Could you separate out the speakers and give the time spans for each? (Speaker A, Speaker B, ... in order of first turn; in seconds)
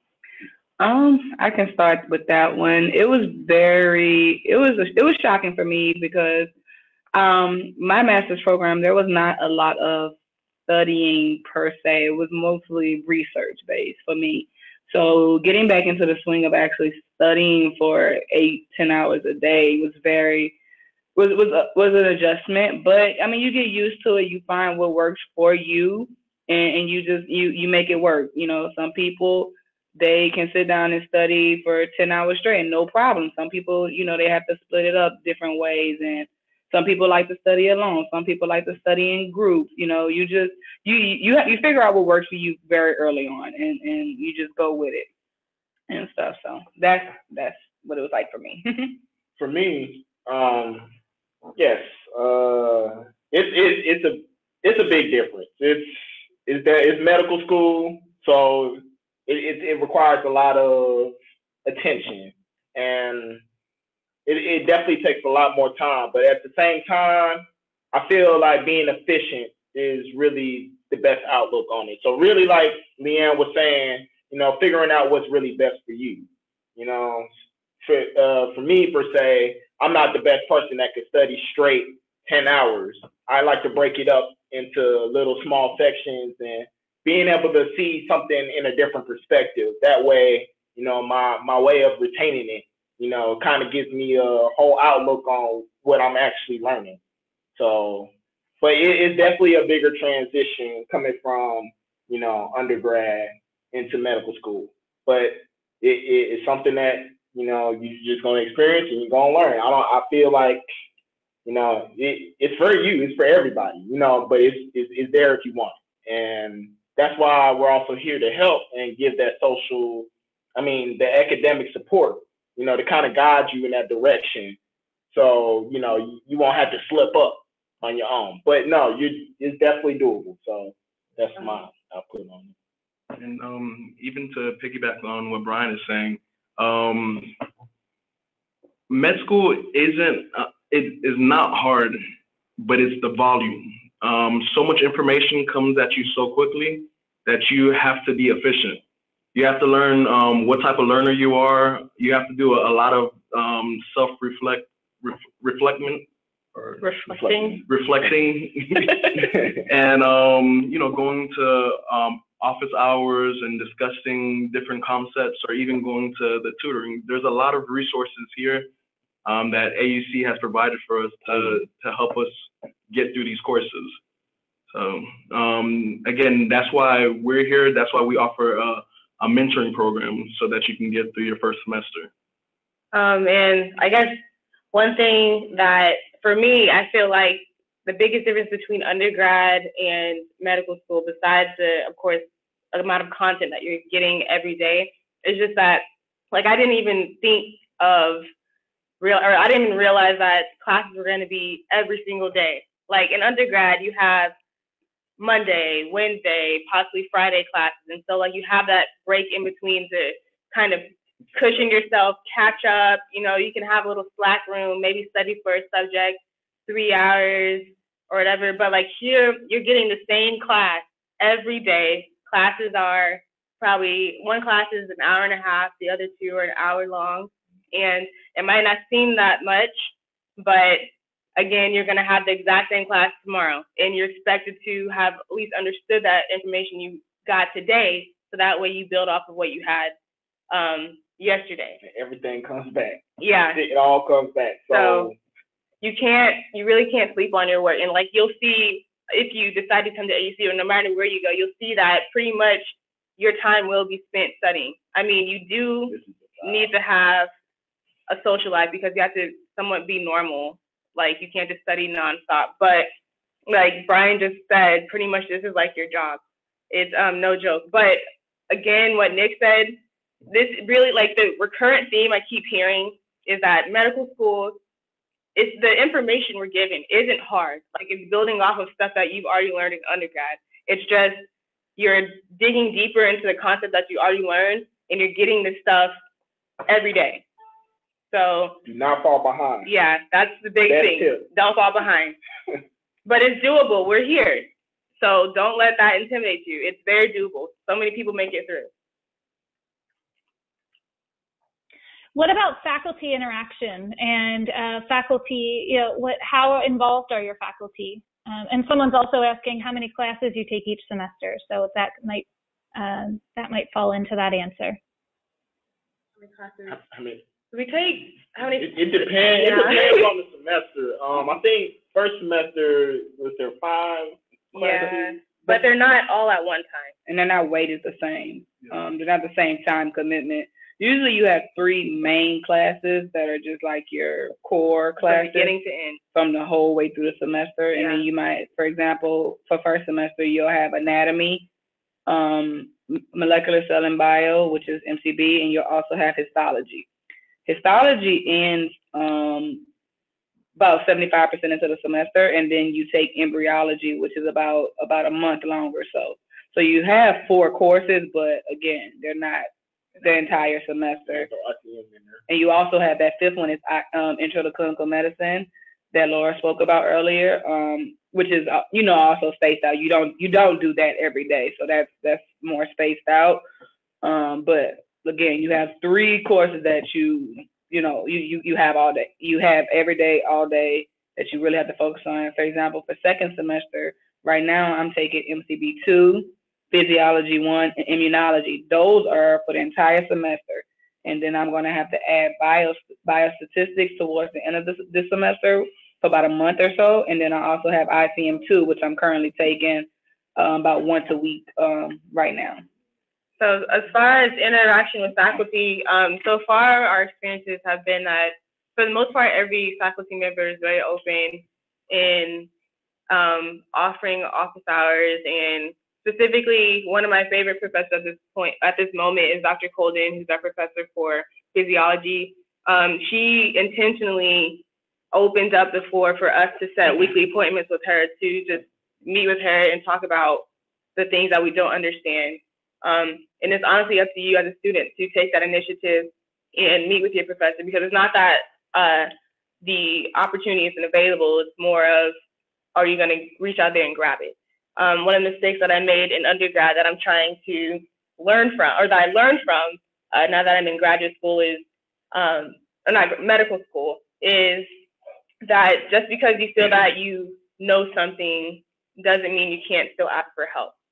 Speaker A: 0.8-6.5, 7.1-10.2, 10.7-20.6, 21.1-45.1, 45.9-49.0, 327.1-335.6, 336.1-341.5, 342.1-346.9, 347.4-349.6, 350.6-359.5, 360.0-361.3, 362.3-373.4, 374.0-402.6
Speaker B: 49.4-50.9, 51.6-63.4, 64.3-77.3, 77.8-97.0, 97.5-110.6, 111.5-124.6, 125.1-132.5, 157.1-157.6, 241.8-243.0, 243.5-245.2, 255.9-256.7, 288.6-289.7, 290.7-291.3, 316.7-317.2, 318.6-325.6, 361.1-362.2
Speaker C: 133.1-137.4, 138.9-142.0, 142.6-148.8, 149.3-156.8, 157.7-168.7, 169.2-174.0, 174.7-182.1
Speaker D: 156.8-157.6, 182.9-184.2, 184.7-198.3, 199.0-204.3, 205.2-239.9, 240.5-241.8, 243.2-243.6, 244.7-245.1, 245.8-257.3, 258.1-262.9, 263.5-269.8, 270.3-274.6, 275.3-281.2, 281.8-285.9, 286.6-287.2, 288.1-288.6, 289.6-292.1, 293.1-294.5, 295.0-298.7, 316.2-316.8, 317.5-320.1, 324.6-326.9, 335.0-336.0, 337.7-338.0, 403.4-412.5, 413.1-439.1, 439.6-442.1, 442.7-454.7, 455.4-460.7
Speaker E: 302.1-314.8